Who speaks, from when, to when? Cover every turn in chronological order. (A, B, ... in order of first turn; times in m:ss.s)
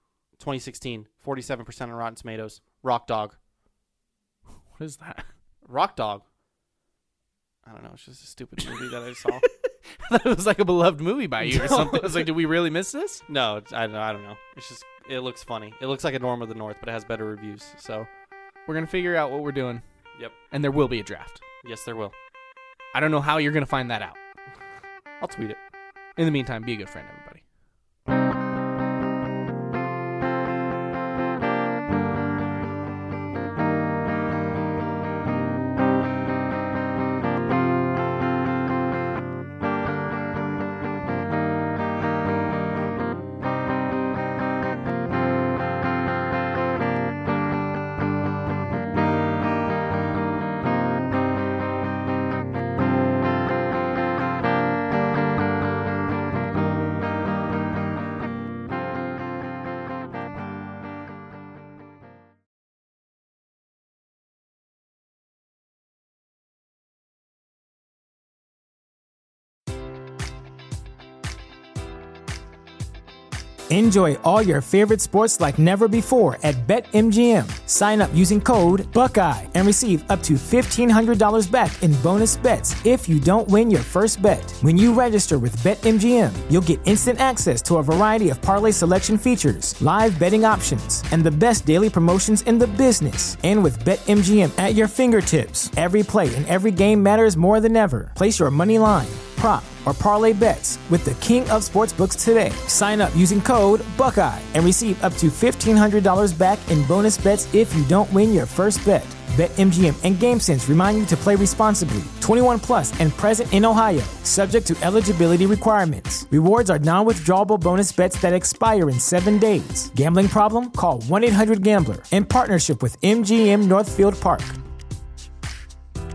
0:00.4-0:03.4 A
0:04.7-0:05.2 B
0:05.6-0:06.2 A
0:07.6-0:09.4 A
0:08.6-0:13.2 B
0:11.4-0:12.3 A
0:13.3-0:18.1 A
0:18.6-0:19.8 B
0:20.5-0:21.4 B
0:21.6-0:22.1 A
0:22.9-0:24.2 B
0:25.2-0:25.6 A
0:26.2-0:27.4 B
1:13.7-2:04.6 C